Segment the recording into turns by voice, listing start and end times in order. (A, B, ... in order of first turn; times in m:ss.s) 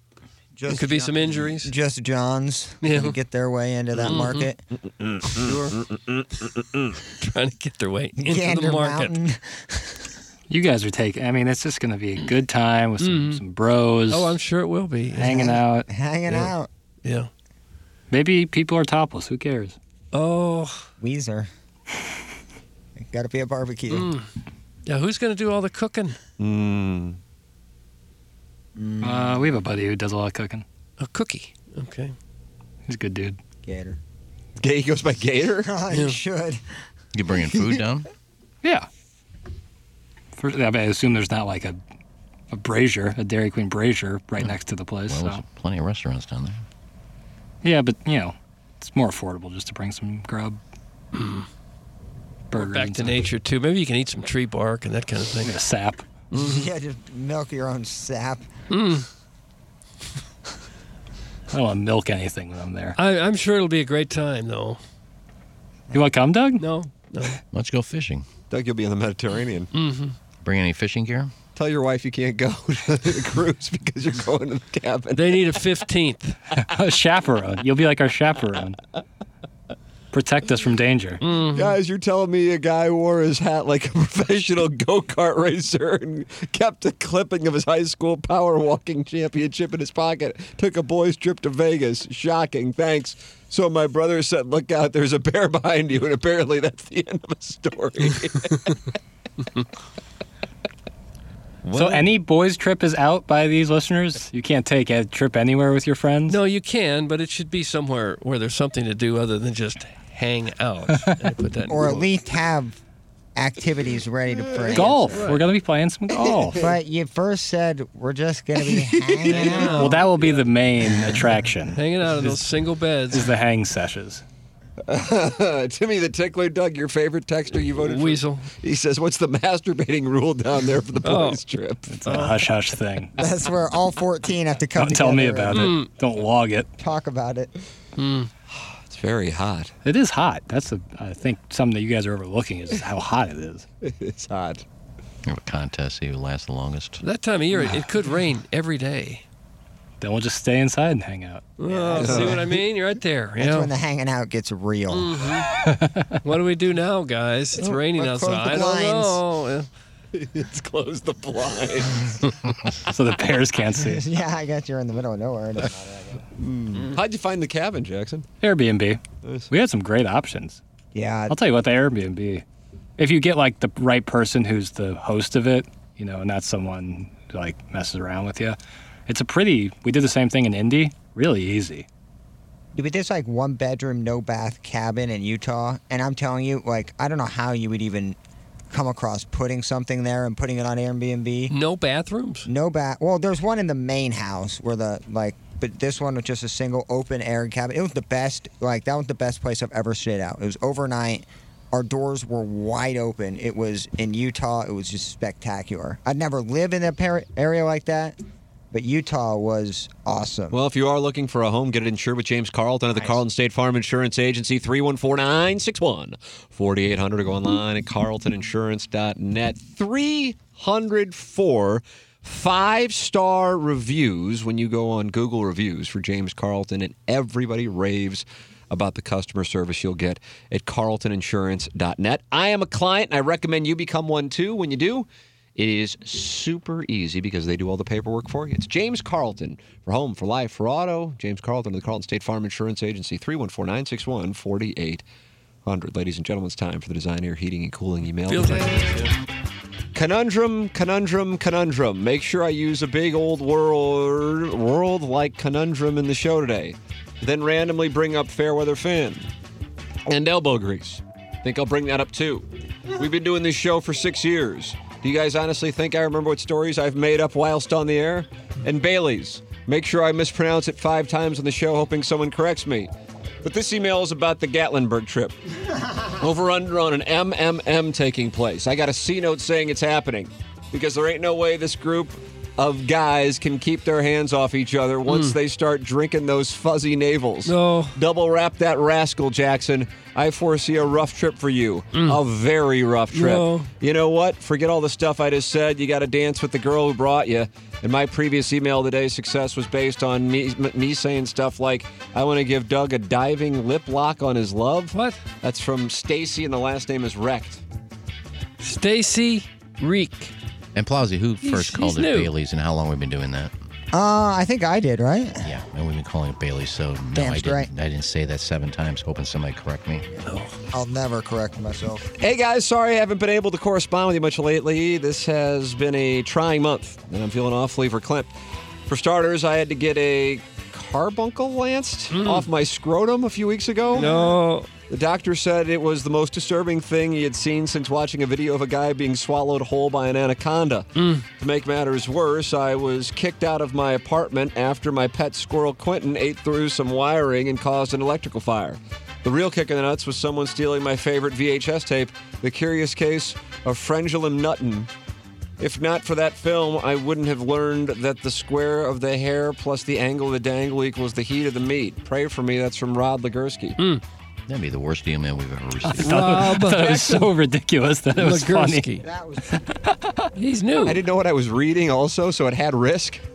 0:00.6-0:01.0 A
0:00.7-0:04.6 B
0:00.7-0:01.7 C
0:02.8-0:03.2 C
0:04.0-0:04.5 C
0:05.0-0:07.0 A
0:05.4-0:05.8 C
0:07.1-0:09.1 C
0:08.2-0:10.0 B
0:10.5-0:14.4 D
0:13.0-0:13.4 C
0:14.1-0:15.5 C
0:15.2-0:15.9 D
0:15.2-0:16.7 B
0:17.0-0:17.3 C
0:18.1-0:19.8 D
0:20.1-0:20.8 C
0:21.0-0:21.5 B
0:23.0-0:24.1 B
0:23.9-0:24.2 C
0:24.8-0:26.2 C
0:26.4-0:27.2 A
0:28.8-0:29.5 B
0:29.0-0:30.6 D
0:31.0-0:32.1 C
0:32.8-0:33.4 D
0:33.6-0:34.0 B
0:34.6-0:35.7 A
0:35.6-0:36.6 B
0:35.9-0:36.2 C
0:37.1-0:38.1 E
0:38.6-0:38.9 D
0:40.4-0:41.8 D
0:42.5-0:45.4 D
0:45.1-0:46.6 E
0:47.6-0:50.6 D
0:51.1-0:51.4 C
0:52.5-0:53.3 D
0:52.5-0:55.5 C
0:55.4-0:56.1 D
0:56.3-0:56.7 C
0:56.3-0:58.4 B
0:58.7-0:59.1 C
1:01.5-1:03.0 D
1:03.0-1:04.8 C
1:05.9-1:06.6 D
1:06.6-1:07.4 C
1:07.5-1:08.2 E
1:08.5-1:09.7 A
1:09.7-1:10.2 C
1:10.4-1:11.3 E
1:11.5-1:15.4 A
1:15.2-1:16.4 C
1:16.6-1:18.8 D
1:20.1-1:21.2 D
1:21.2-1:21.7 C
1:21.5-1:38.8 A
1:41.6-1:42.1 A
1:41.7-1:46.4 D
1:46.3-1:52.1 C
1:50.9-1:51.2 D
1:51.7-1:52.8 B
1:53.4-1:55.3 B
1:54.7-1:56.6 D
1:56.5-2:00.0 B
1:58.9-1:59.8 A
1:59.3-2:00.1 C
1:59.8-2:02.5 D
2:01.7-2:03.3 C
2:03.1-2:04.2 D
2:04.9-2:12.1 A
2:07.8-2:08.5 C
2:11.0-2:11.4 C
2:11.9-2:13.1 D
2:13.2-2:15.7 B
2:14.8-2:16.7 D
2:15.5-2:15.9 C
2:16.8-2:17.5 B
2:18.0-2:18.3 C
2:18.7-2:19.7 A
2:19.8-2:23.6 D
2:23.8-2:24.6 A
2:25.2-2:27.0 E
2:27.0-2:29.2 C
2:30.0-2:31.6 D
2:31.6-2:33.7 C
2:31.7-2:32.4 B
2:31.9-2:32.5 A
2:33.4-2:35.2 B
2:34.9-2:35.5 C
2:35.6-2:36.2 D
2:36.2-2:39.7 C
2:37.9-2:39.2 B
2:40.1-2:42.1 A
2:42.9-2:44.0 D
2:43.8-2:46.2 B
2:46.4-2:48.3 A
2:48.4-2:50.6 D
2:49.2-2:49.5 A
2:50.9-2:51.4 B
2:51.3-2:52.4 D
2:53.0-3:01.8 D
3:02.7-3:08.2 B
3:08.7-3:11.5 B
3:11.5-3:12.5 C
3:12.4-3:28.2 B
3:28.7-3:30.6 B
3:30.5-4:05.0 A
4:05.6-4:08.8 A
4:08.3-4:09.1 C
4:09.9-4:19.3 A
4:20.1-4:32.9 A
4:33.4-4:35.4 A
4:36.1-5:07.6 A
4:45.1-4:45.4 C
4:47.4-4:48.0 C
4:51.9-4:52.2 C
4:53.1-4:53.7 C
5:04.9-5:05.2 C
5:08.6-5:10.3 C
5:10.7-5:13.5 E
5:11.4-5:12.3 C
5:13.9-5:15.5 B
5:15.4-5:20.1 E
5:17.1-5:17.7 B
5:20.2-5:20.5 C
5:20.7-5:22.1 B
5:22.2-5:28.3 A
5:28.9-5:54.9 A
5:32.1-5:32.5 C
5:33.9-5:34.7 C
5:41.0-5:41.2 C
5:55.6-6:03.8 A
6:04.5-6:06.2 E
6:06.0-6:08.9 D
6:06.0-6:07.2 C
6:08.2-6:09.0 C
6:09.0-6:09.6 B
6:09.5-6:10.3 D
6:10.4-6:11.0 C
6:10.8-6:13.2 A